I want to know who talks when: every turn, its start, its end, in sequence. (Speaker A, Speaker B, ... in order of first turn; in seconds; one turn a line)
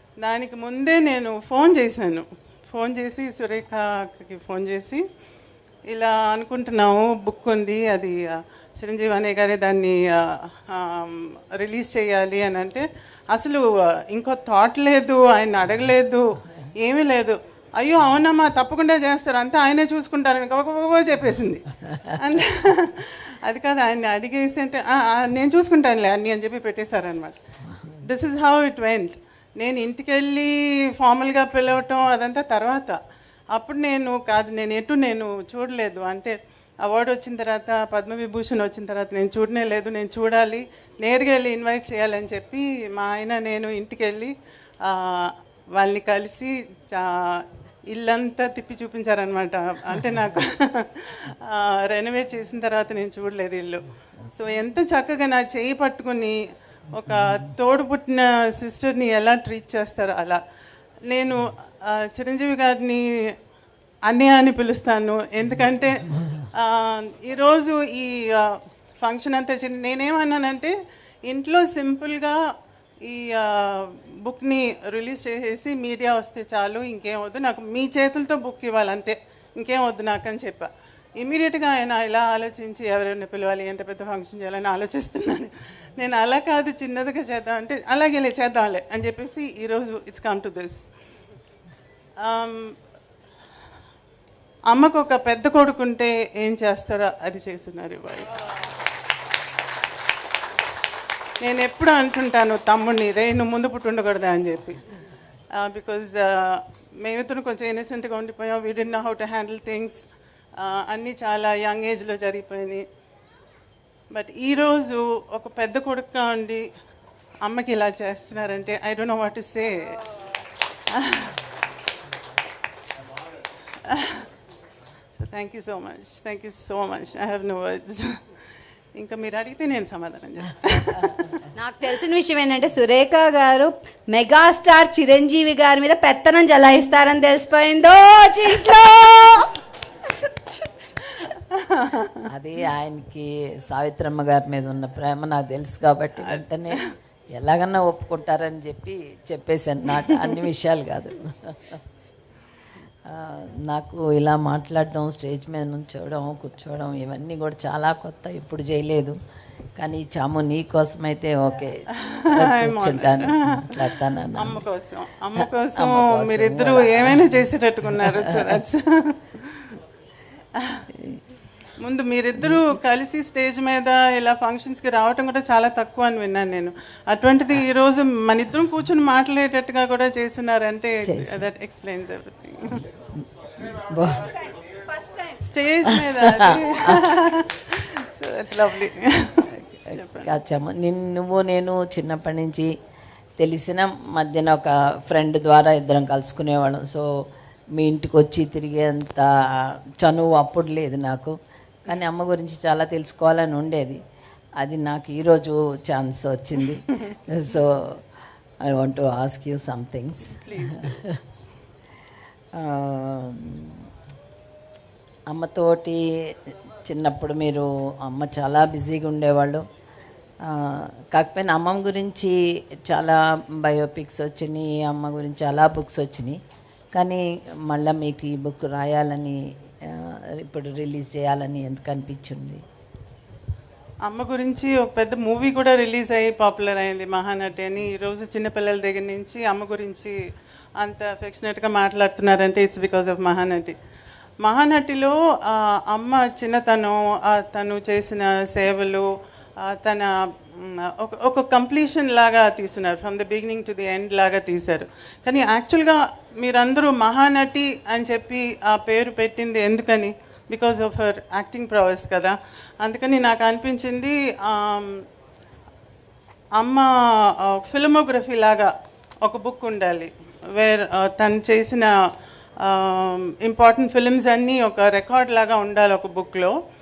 Speaker A: 0.2-5.0
Speaker A: 5.9-27.4
Speaker B: 21.9-22.1
Speaker B: 27.7-28.0
Speaker A: 28.0-33.0
Speaker A: 33.5-56.4
Speaker A: 56.9-60.4
Speaker B: 57.1-57.5
Speaker A: 61.1-63.3
Speaker A: 64.1-72.4
Speaker B: 66.1-66.5
Speaker A: 73.0-90.8
Speaker A: 92.2-92.8
Speaker A: 94.7-98.4
Speaker A: 101.4-104.8
Speaker A: 105.5-112.8
Speaker A: 114.1-116.7
Speaker A: 117.4-120.0
Speaker A: 120.9-121.3
Speaker A: 123.8-124.3
Speaker A: 125.2-128.2
Speaker A: 128.9-131.3
Speaker C: 131.5-139.5
Speaker A: 141.5-142.3
Speaker B: 142.3-146.8
Speaker A: 146.2-146.9
Speaker B: 147.3-151.8
Speaker B: 153.1-159.2
Speaker B: 159.8-161.8
Speaker A: 162.0-169.7
Speaker B: 162.3-164.6
Speaker B: 165.4-167.3
Speaker B: 167.9-168.6
Speaker A: 170.6-170.8
Speaker B: 170.9-171.2
Speaker A: 171.8-182.8
Speaker B: 172.4-172.8
Speaker B: 181.0-181.5
Speaker B: 182.7-184.3
Speaker C: 184.9-185.4
Speaker A: 185.4-190.4
Speaker B: 185.8-187.1
Speaker B: 189.5-192.7
Speaker B: 193.4-197.1
Speaker B: 197.7-204.0
Speaker B: 204.6-208.0
Speaker B: 208.6-211.2
Speaker A: 210.3-211.0
Speaker B: 212.5-213.9
Speaker B: 215.3-219.7
Speaker B: 220.4-222.4
Speaker B: 222.9-226.4
Speaker B: 226.9-232.6
Speaker A: 234.1-240.2
Speaker A: 240.8-243.8
Speaker A: 244.4-265.0
Speaker A: 266.6-268.7
Speaker A: 269.2-271.9
Speaker A: 272.6-276.6